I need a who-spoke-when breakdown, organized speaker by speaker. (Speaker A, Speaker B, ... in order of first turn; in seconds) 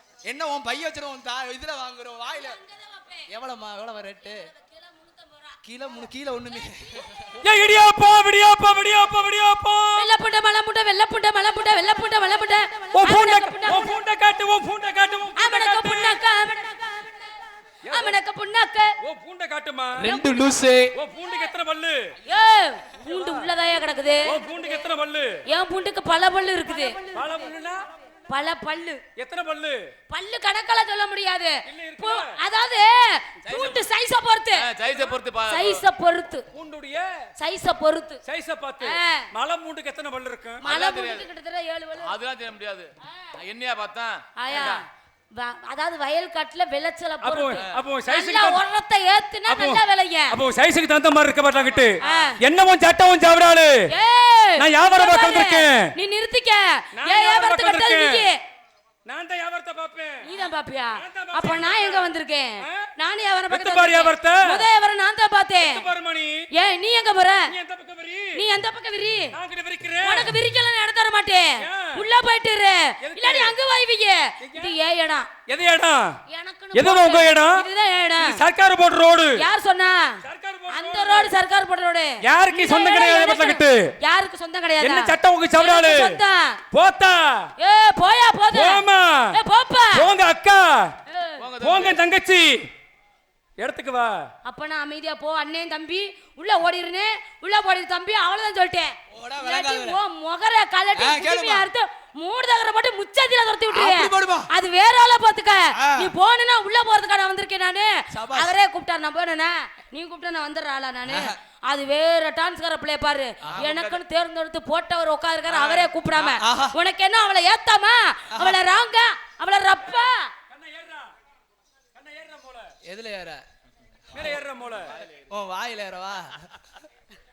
Speaker A: 0.2-2.6, 3.3-4.5, 5.6-7.3, 20.0-20.9, 99.1-100.0, 101.0-101.7, 103.7-104.5, 105.8-106.1, 108.1-108.6, 111.1-111.4, 113.4-113.7, 115.6-116.8, 118.3-118.6, 122.8-123.4, 125.3-126.5
Speaker B: 2.3-3.3, 4.3-5.6, 10.0-14.0, 15.4-17.3, 17.9-18.9, 22.3-24.4, 25.5-27.2, 28.3-29.0, 30.1-34.6, 35.5-36.5, 37.4-38.2, 38.8-39.2, 40.6-42.1, 44.4-44.8, 45.4-50.4, 52.0-52.4, 53.9-58.4, 60.2-65.8, 66.6-67.5, 68.3-69.3, 70.0-75.3, 76.3-78.4, 79.4-86.6, 87.6-90.0, 91.1-91.4, 94.5-120.3
Speaker C: 7.4-10.1, 12.9-16.2, 17.9-18.2, 19.0-20.1, 20.9-22.1, 23.0-23.5, 24.3-25.3, 26.8-27.8, 29.2-29.8, 31.7-32.4, 33.4-33.8, 36.5-37.1, 38.2-40.6, 47.2-48.6, 49.5-53.9, 54.6-55.9, 57.0-58.3, 59.0-60.3, 61.0-62.1, 62.6-62.9, 63.5-64.7, 65.6-66.4, 67.5-68.4, 69.3-70.4, 71.6-72.0, 73.0-73.6, 74.4-74.7, 75.5-76.1, 76.7-77.6, 78.2-79.4, 80.2-81.3, 82.2-83.9, 84.8-86.2, 86.7-87.5, 88.5-89.4, 89.9-90.9, 91.6-92.7, 93.6-94.2, 120.5-121.1, 122.0-122.7, 124.1-125.0
Speaker D: 34.6-35.8, 40.6-41.3, 42.0-44.8, 91.4-92.0, 113.5-114.0